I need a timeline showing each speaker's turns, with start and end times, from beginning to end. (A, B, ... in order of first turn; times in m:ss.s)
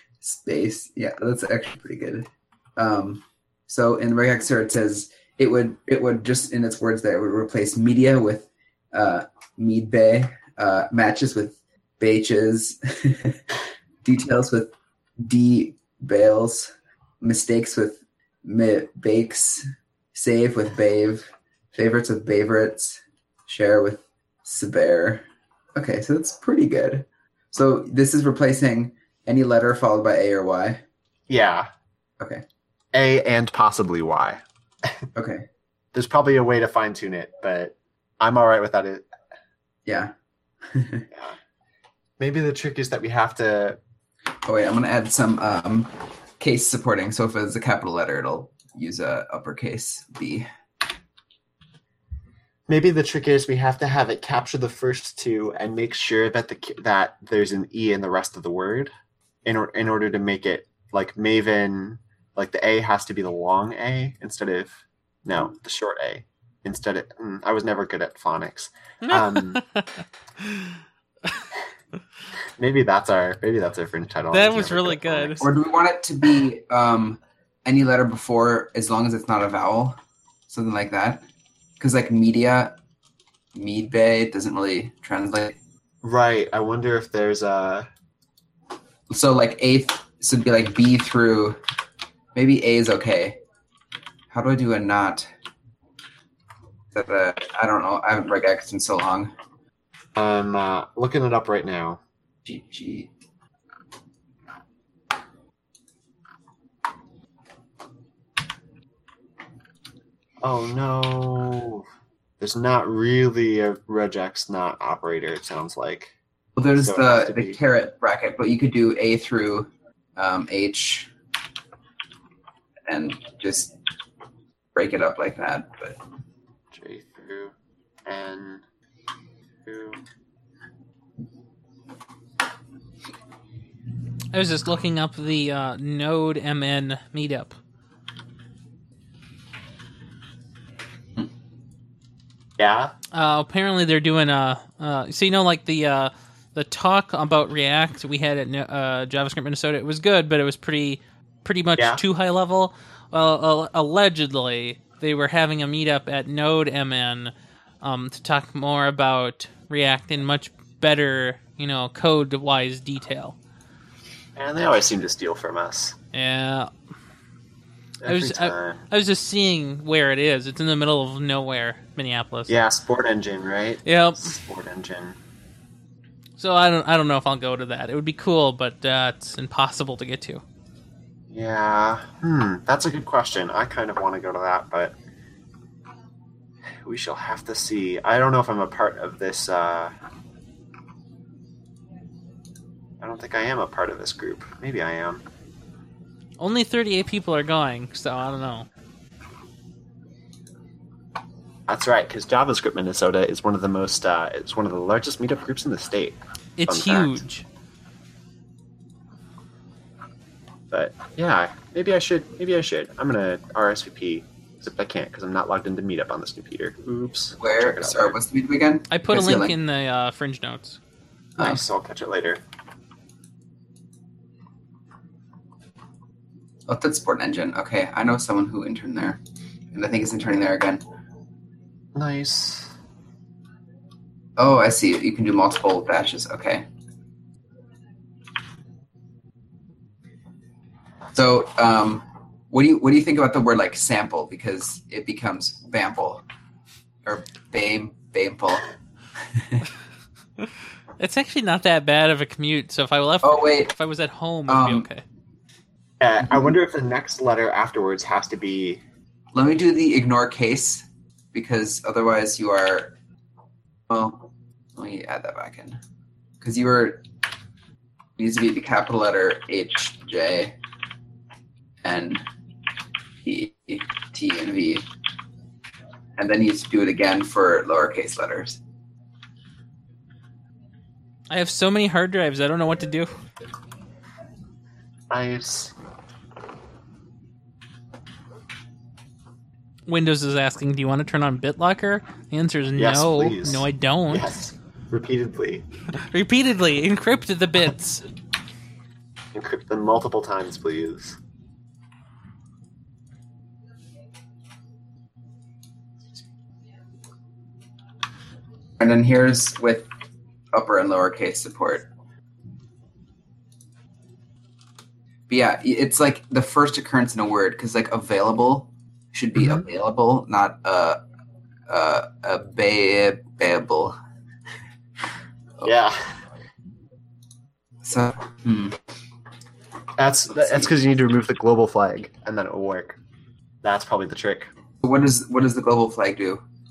0:00.2-0:13.4 A
0:14.0-0:30.8 A
0:31.3-0:31.7 B
0:32.9-0:35.1 B
0:35.2-0:35.4 A
0:35.9-0:39.1 B
0:39.8-0:40.1 A
0:40.7-0:41.1 A
0:41.1-0:41.4 B
0:42.2-0:43.8 B
0:44.4-0:50.5 A
0:52.7-0:58.9 B
0:59.4-1:09.6 B
1:09.0-1:11.5 C
1:12.6-1:15.4 B
1:14.3-1:15.5 C
1:15.4-1:21.2 A
1:21.8-1:22.8 A
1:23.5-1:25.6 A
1:26.0-1:27.9 B
1:29.1-1:31.6 A
1:32.3-1:33.4 A
1:34.3-1:35.3 A
1:36.9-1:39.3 A
1:40.2-1:42.0 B
1:42.4-1:43.1 A
1:50.4-1:51.8 B
1:52.4-1:56.1 B
1:56.6-2:01.1 A
1:56.8-1:57.6 B
2:02.9-2:03.7 A
2:04.7-2:06.0 A
2:06.7-2:07.5 B
2:08.0-2:08.6 B
2:09.6-2:10.0 B
2:14.3-2:17.5 C
2:22.6-2:22.9 B
2:23.1-2:43.4 C
2:31.8-2:32.0 B
2:44.4-2:46.0 B
2:46.1-2:46.7 C
2:48.0-2:48.8 B
2:48.0-2:52.6 C
2:52.5-2:55.2 B
2:53.8-2:54.3 C
2:56.4-3:00.4 C
3:01.3-3:04.9 B
3:06.8-3:09.9 B
3:13.0-3:15.2 B
3:16.4-3:18.7 C
3:21.7-3:27.2 B
3:26.6-3:27.4 C
3:30.7-3:38.2 B
3:37.4-3:39.6 A
3:38.9-3:40.8 C
3:41.4-3:41.6 A
3:41.4-3:42.4 B
3:46.7-3:49.2 A
3:49.7-3:50.8 A
3:51.9-3:52.7 B
3:54.4-3:56.6 A
4:01.1-4:06.2 A
4:07.0-4:08.7 A
4:09.3-4:09.6 A
4:11.0-4:15.0 C
4:13.2-4:13.7 A
4:14.5-4:14.9 A
4:16.0-4:18.8 B
4:16.2-4:16.5 A
4:19.3-4:22.9 A
4:23.9-4:24.2 A
4:24.8-4:25.8 A
4:26.4-4:27.0 A
4:28.2-4:30.5 A
4:31.8-4:32.2 A
4:33.2-4:34.8 A
4:36.2-4:38.6 A
4:41.3-4:43.1 C
4:45.1-4:45.7 B
4:49.9-4:54.3 C
4:52.8-4:55.6 B
4:56.0-4:58.0 C
4:59.3-5:01.2 B
5:08.8-5:09.9 A
5:10.5-5:11.9 A
5:15.3-5:21.0 A
5:19.4-5:19.6 B
5:21.7-5:24.0 A
5:25.6-5:26.2 B
5:27.8-5:28.8 A
5:30.0-5:33.0 B
5:30.4-5:30.7 A
5:33.6-5:34.5 B
5:34.8-5:36.4 A